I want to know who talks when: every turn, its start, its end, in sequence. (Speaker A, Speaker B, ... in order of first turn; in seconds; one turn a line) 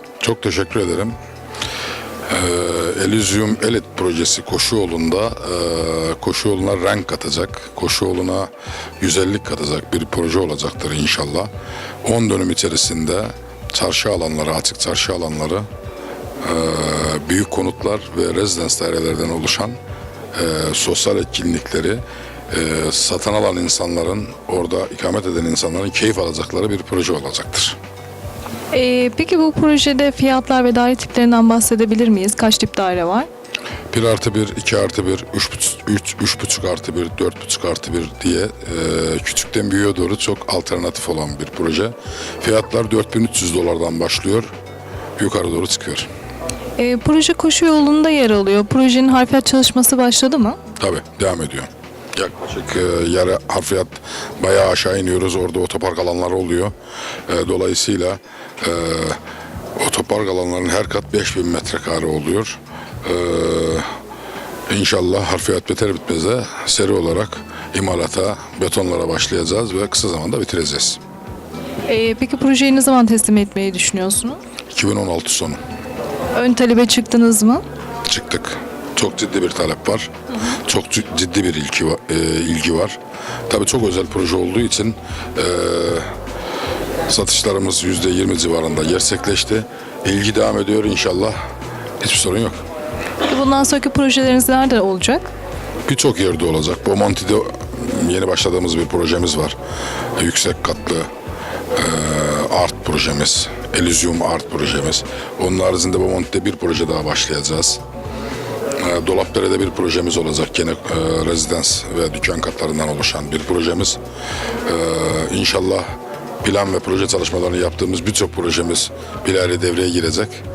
Speaker A: 0.2-1.1
Speaker A: 2.3-11.5
Speaker A: 12.0-15.7
Speaker A: 16.4-19.8
Speaker A: 20.3-27.8
Speaker B: 28.7-33.3
Speaker A: 33.9-44.5
Speaker A: 45.2-46.1
Speaker B: 46.8-50.6
Speaker A: 50.8-56.7
Speaker A: 57.3-59.2
Speaker A: 59.8-63.9
Speaker A: 64.7-71.0
Speaker B: 71.9-74.4
Speaker A: 74.7-75.6
Speaker B: 76.3-77.6
Speaker A: 78.0-86.1
Speaker A: 87.1-91.3
Speaker A: 92.0-92.6
Speaker B: 93.2-95.3
Speaker A: 95.9-99.5
Speaker A: 100.2-101.1
Speaker A: 101.7-107.8
Speaker A: 108.8-114.0
Speaker A: 114.6-115.9
Speaker A: 116.4-120.4